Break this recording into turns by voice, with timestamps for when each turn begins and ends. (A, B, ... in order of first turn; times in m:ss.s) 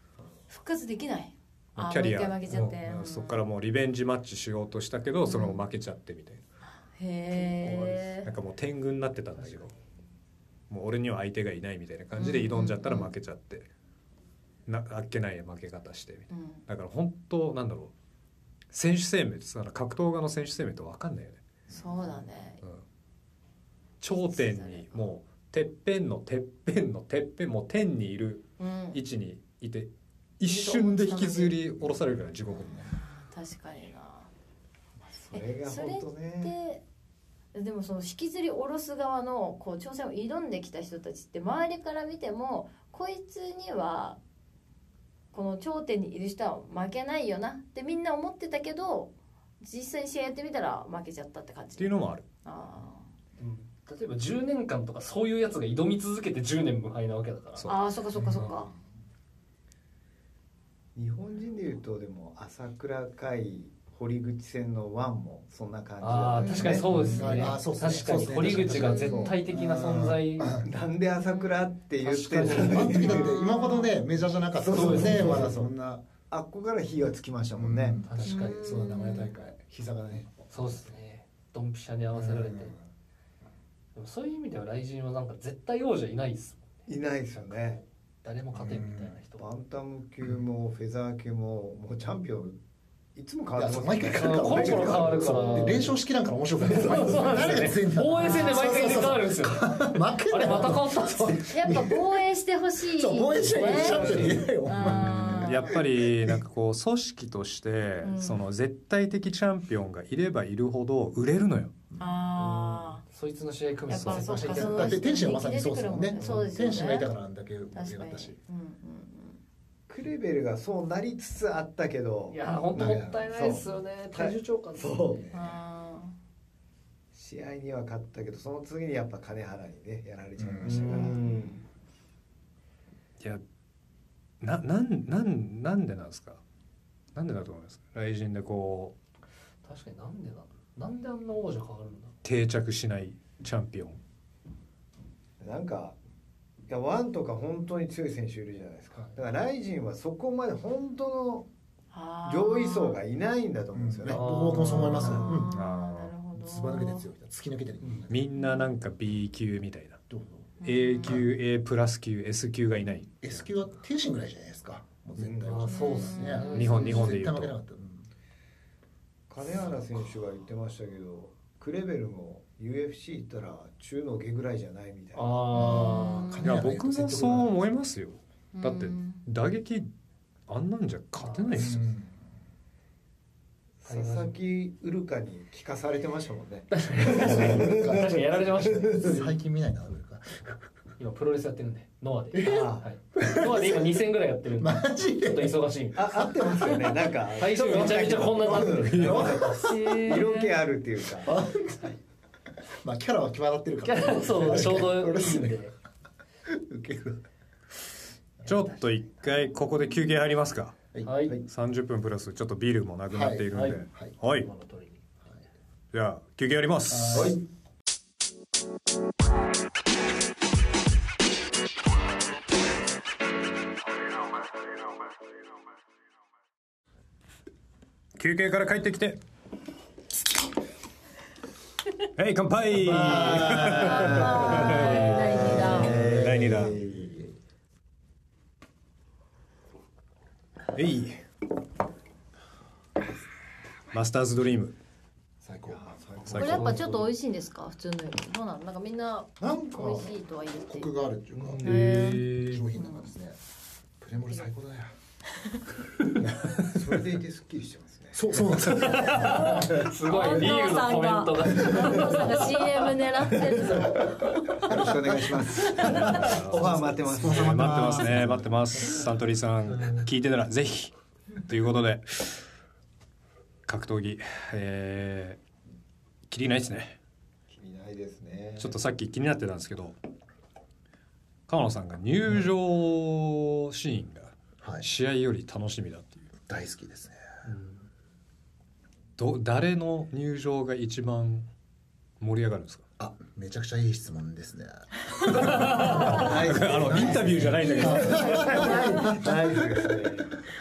0:00.5-0:03.4 A
0:01.8-0:06.4 B
0:05.2-0:05.6 A
0:06.7-0:08.3 A
0:07.6-0:09.7 B
0:10.7-0:13.7 B
0:12.2-0:13.1 A
0:14.7-0:17.9 B
0:16.3-0:16.6 A
0:18.7-0:21.4 B
0:21.7-0:22.6 A
0:24.0-0:32.9 B
0:24.1-0:25.1 A
0:28.6-0:29.0 A
0:30.4-0:31.6 A
0:32.5-0:34.3 A
0:35.2-0:36.5 C
0:35.3-0:36.8 A
0:37.5-0:44.2 A
0:45.3-0:53.1 A
0:51.8-0:52.2 B
0:53.4-0:57.7 D
0:57.5-0:57.8 B
0:57.6-0:58.7 A
0:58.2-0:58.4 E
1:00.9-1:09.3 C
1:06.0-1:10.6 D
1:06.4-1:10.7 E
1:06.9-1:07.4 A
1:08.8-1:09.4 A
1:10.6-1:13.3 C
1:11.2-1:11.6 A
1:12.0-1:13.2 D
1:12.5-1:16.0 E
1:12.9-1:14.0 A
1:14.6-1:15.7 C
1:14.7-1:15.5 D
1:16.3-1:18.0 C
1:17.6-1:20.9 E
1:18.0-1:18.7 D
1:18.2-1:19.4 A
1:20.5-1:22.7 D
1:22.1-1:22.8 E
1:23.9-1:29.5 D
1:26.9-1:27.8 C
1:28.5-1:29.2 E
1:29.4-1:32.6 C
1:33.1-1:35.2 C
1:33.5-1:42.2 E
1:34.2-1:36.0 D
1:35.2-1:35.8 A
1:36.6-1:41.5 D
1:37.0-1:37.5 C
1:38.1-1:39.0 A
1:41.5-1:45.7 A
1:42.9-1:46.4 E
1:43.6-1:44.4 D
1:44.8-1:51.7 B
1:48.0-1:48.4 A
1:52.0-1:53.0 A
1:52.3-1:55.0 D
1:53.9-1:57.1 A
1:54.1-1:58.4 E
1:56.2-1:56.6 D
1:57.7-1:59.4 A
1:59.9-2:05.3 C
2:02.3-2:05.2 D
2:02.7-2:03.3 E
2:05.2-2:05.6 E
2:05.3-2:06.1 A
2:07.1-2:11.3 C
2:10.4-2:11.2 E
2:10.6-2:11.6 D
2:11.2-2:11.6 A
2:14.4-2:16.4 B
2:17.1-2:19.0 B
2:19.6-2:22.2 D
2:22.2-2:24.0 B
2:25.4-2:26.0 C
2:26.7-2:31.5 C
2:31.9-2:33.0 A
2:32.2-2:35.3 C
2:33.7-2:35.5 E
2:34.1-2:35.2 D
2:34.6-2:37.1 A
2:35.5-2:36.2 B
2:36.3-2:38.2 E
2:38.1-2:40.0 B
2:38.4-2:38.7 A
2:40.1-2:41.3 E
2:40.6-2:41.2 A
2:40.6-2:43.4 B
2:43.2-2:48.1 E
2:45.2-2:45.7 C
2:45.4-2:46.9 D
2:45.6-2:46.9 A
2:46.5-2:47.5 B
2:49.3-2:55.5 C
2:55.1-2:56.2 D
2:55.5-2:56.5 A
2:55.5-2:57.6 E
2:56.4-2:59.9 B
2:58.5-2:59.2 A
3:00.5-3:01.8 B
3:01.2-3:01.8 D
3:01.5-3:02.2 E
3:03.8-3:09.2 C
3:03.9-3:04.3 D
3:06.7-3:09.2 D
3:07.0-3:08.1 E
3:09.0-3:10.7 E
3:11.0-3:16.3 D
3:12.3-3:13.9 E
3:12.4-3:12.9 C
3:14.6-3:15.6 E
3:15.9-3:21.4 C
3:16.1-3:16.9 E
3:17.4-3:19.3 D
3:17.6-3:19.4 B
3:18.5-3:20.0 E
3:19.5-3:20.5 A
3:21.2-3:22.0 E
3:22.8-3:25.6 E
3:23.8-3:25.7 D
3:26.5-3:27.2 E
3:28.4-3:30.8 B
3:31.0-3:31.4 D
3:31.4-3:34.5 B
3:33.1-3:34.1 E
3:33.5-3:35.0 D
3:35.9-3:37.4 B
3:36.9-3:37.4 E
3:48.2-3:49.2 B
3:52.2-3:56.8 B
3:52.8-3:57.3 C
3:52.9-3:57.3 E
3:53.6-3:55.9 A
4:00.7-4:01.2 B
4:03.9-4:04.8 B
4:05.4-4:06.7 E
4:05.6-4:06.9 C
4:06.2-4:06.9 B
4:06.3-4:10.9 A
4:09.4-4:13.4 E
4:11.6-4:12.7 B
4:11.6-4:13.1 A
4:14.0-4:14.9 E
4:16.2-4:16.6 B
4:16.6-4:18.6 C
4:18.1-4:19.8 E
4:18.6-4:22.9 D
4:19.1-4:24.1 A
4:23.6-4:24.0 E
4:24.6-4:28.2 C
4:24.6-4:25.0 E
4:25.6-4:26.2 A
4:25.7-4:29.0 E
4:25.9-4:30.9 B
4:31.4-4:32.4 B
4:33.6-4:35.4 B
4:36.3-4:37.0 B
4:37.5-4:38.8 C
4:38.6-4:40.0 B
4:41.5-4:46.3 B
4:44.6-4:44.9 E
4:46.5-4:47.2 E
4:47.5-4:47.9 D
4:49.2-4:51.5 B
4:52.2-4:52.8 B
4:53.0-4:59.9 E
4:55.3-4:56.2 D
4:55.3-4:58.6 B
4:55.8-5:00.3 C
4:57.6-4:59.1 A
4:58.3-4:58.7 D